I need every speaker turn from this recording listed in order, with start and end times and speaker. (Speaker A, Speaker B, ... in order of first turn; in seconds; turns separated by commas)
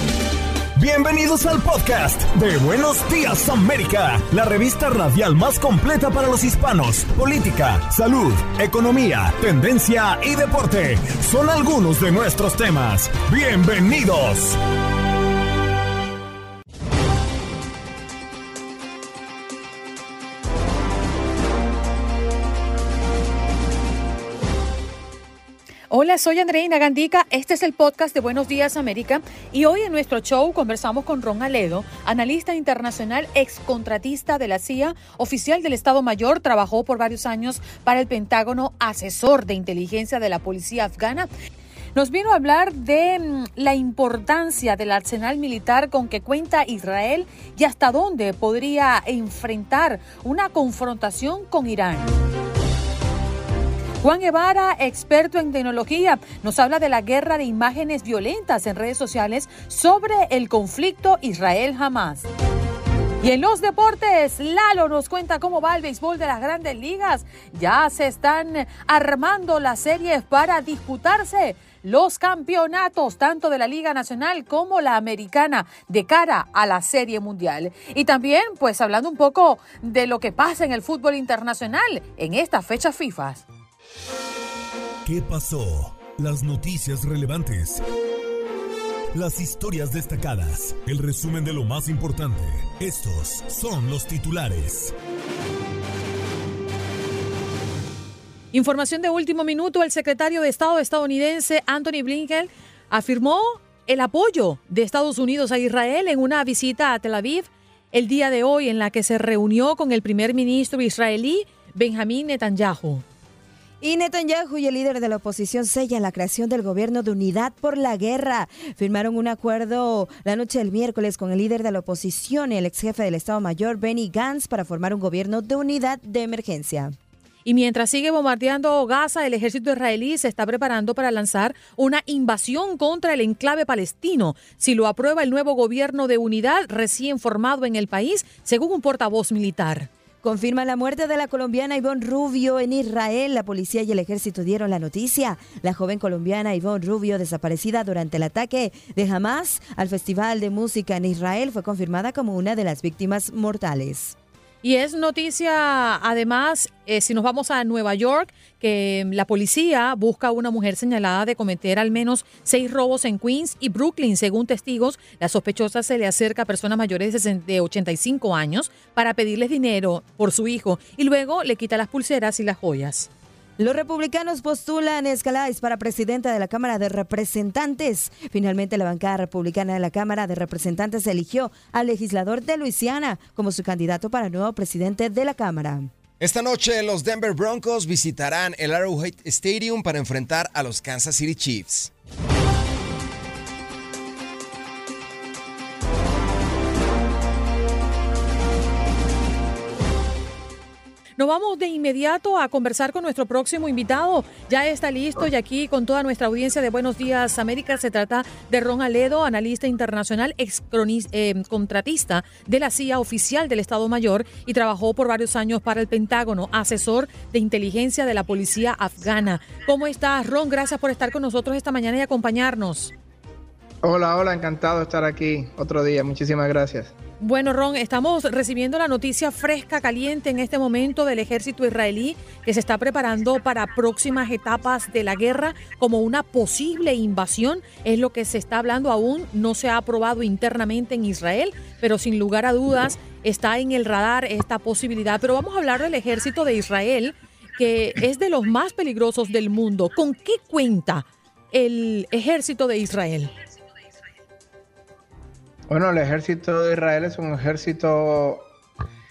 Speaker A: 0.7-14.6, Speaker B: 25.9-41.3, Speaker B: 41.9-52.2, Speaker B: 54.0-62.3, Speaker B: 63.2-83.4, Speaker A: 85.0-87.8, Speaker A: 89.1-94.9, Speaker B: 98.5-113.0, Speaker C: 113.8-127.0, Speaker B: 127.4-139.9, Speaker C: 140.2-154.2, Speaker B: 154.6-173.1, Speaker C: 173.6-185.9, Speaker D: 186.2-191.9, Speaker B: 201.2-222.9, Speaker E: 223.8-226.9, Speaker B: 227.2-253.3, Speaker E: 255.7-258.5